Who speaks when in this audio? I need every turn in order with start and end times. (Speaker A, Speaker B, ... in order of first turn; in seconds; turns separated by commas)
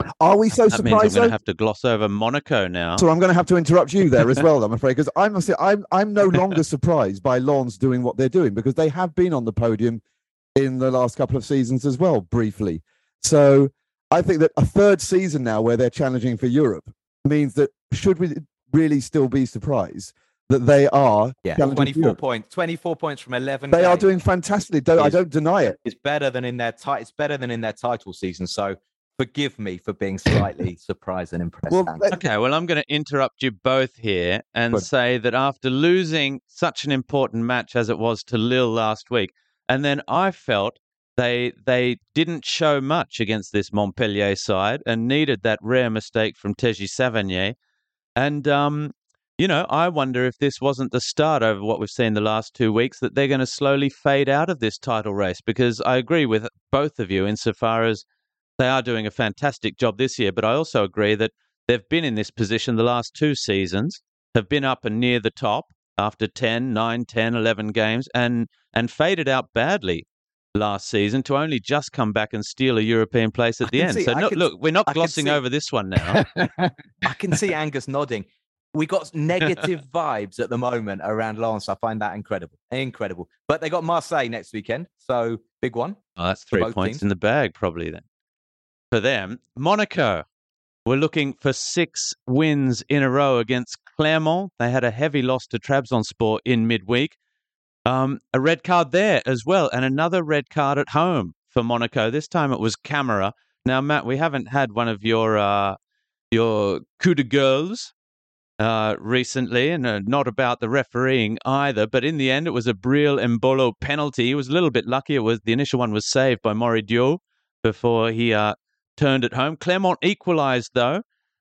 Speaker A: 0.2-1.3, Speaker B: 0.7-3.0, Speaker A: 3.0-10.0, Speaker A: 10.6-22.2, Speaker C: 21.4-24.1, Speaker A: 23.7-25.7, Speaker C: 25.8-32.0, Speaker A: 31.7-32.2, Speaker B: 32.1-47.5, Speaker B: 48.2-58.0, Speaker B: 58.6-76.2, Speaker C: 73.7-75.4, Speaker A: 76.2-76.7, Speaker C: 77.0-87.0, Speaker B: 86.2-88.0, Speaker B: 88.9-90.2, Speaker B: 90.8-97.2, Speaker B: 97.8-105.8, Speaker B: 106.3-107.9, Speaker B: 108.6-121.0